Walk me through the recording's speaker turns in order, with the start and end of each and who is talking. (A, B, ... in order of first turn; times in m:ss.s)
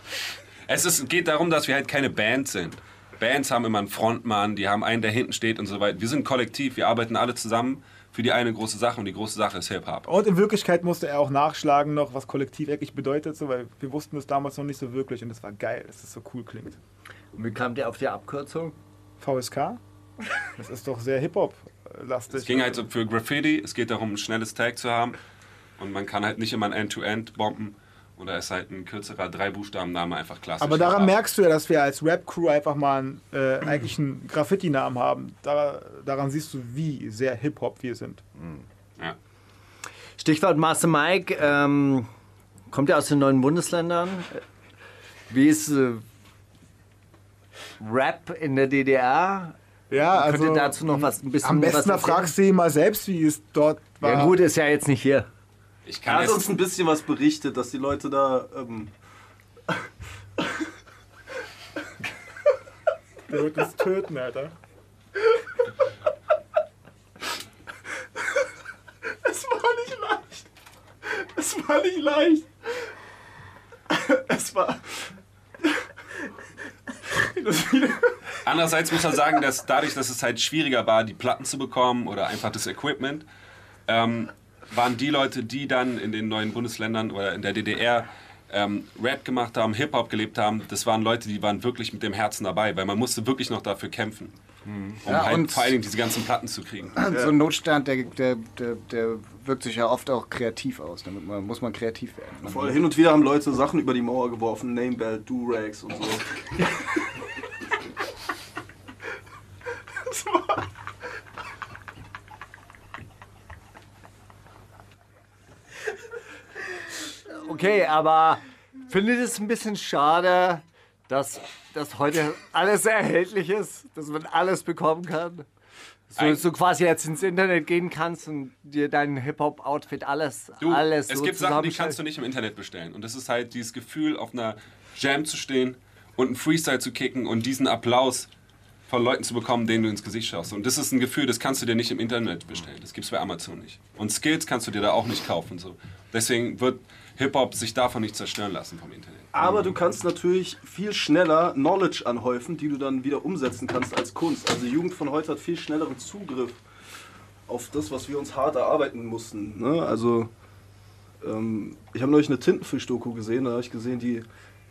0:00.7-0:10.1 A
0:10.1-0:16.8 B
0:17.4-0:18.8 C
0:19.2-0:19.8 B
0:20.6-0:22.8 B
0:22.3-0:25.2 A
0:25.8-0:31.2 A
0:30.6-0:38.2 B
0:40.2-0:42.1 C
0:42.7-0:44.4 C
0:45.3-0:46.0 C
0:47.8-0:49.6 C
0:49.9-0:54.4 B
0:50.1-0:52.3 C
0:54.0-0:55.3 C
0:55.9-0:56.6 A
0:56.0-0:58.9 D
1:03.3-1:04.5 B
1:09.2-1:10.4 D
1:11.1-1:12.5 D
1:13.9-1:14.9 D
1:17.2-1:18.2 D
1:18.4-1:23.3 A
1:23.9-1:34.3 A
1:35.0-1:37.0 A
1:35.1-1:35.8 E
1:37.0-1:42.8 E
1:37.1-1:37.3 D
1:42.4-1:46.3 D
1:57.3-2:05.5 C
2:06.1-2:12.0 C
2:06.2-2:06.4 A
2:10.6-2:18.3 A
2:18.9-2:29.3 A
2:29.3-2:36.6 D
2:37.5-2:40.3 D
2:41.2-2:44.3 D